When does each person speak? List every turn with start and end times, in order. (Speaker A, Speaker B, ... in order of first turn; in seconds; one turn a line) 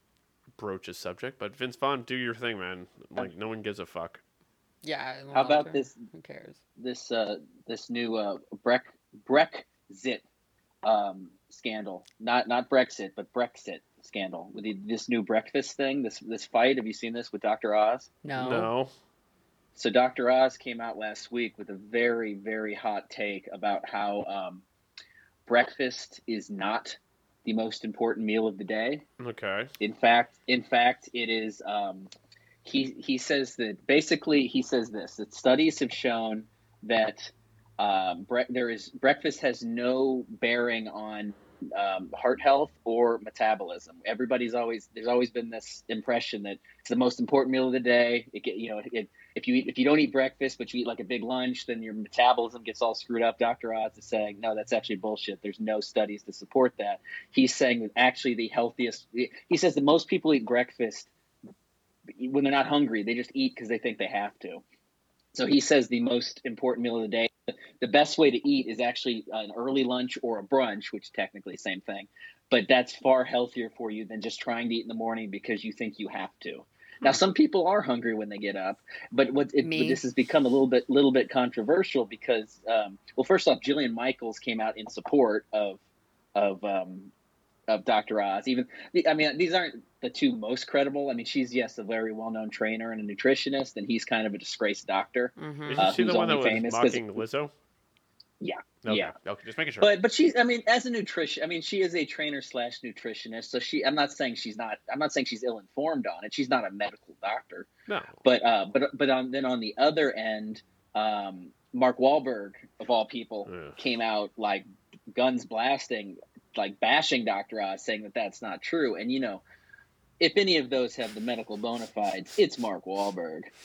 Speaker A: 0.5-4.2
Speaker B: 4.8-6.6
Speaker C: 5.3-6.0
Speaker C: 6.8-10.2
Speaker C: 10.8-18.1
Speaker B: 18.2-18.7
Speaker A: 18.3-18.9
Speaker C: 19.7-24.6
Speaker C: 25.4-29.0
Speaker A: 29.2-29.7
Speaker C: 29.8-32.1
Speaker C: 32.6-61.1
Speaker C: 62.2-64.6
Speaker C: 65.3-85.8
Speaker B: 79.6-80.0
Speaker C: 86.3-87.1
Speaker C: 87.7-97.0
Speaker B: 95.4-96.0
Speaker A: 95.6-97.5
Speaker C: 98.4-99.1
Speaker A: 98.8-99.9
Speaker C: 99.8-107.7
Speaker A: 107.9-108.2
Speaker C: 108.2-119.4
Speaker A: 113.5-113.8
Speaker C: 120.2-123.5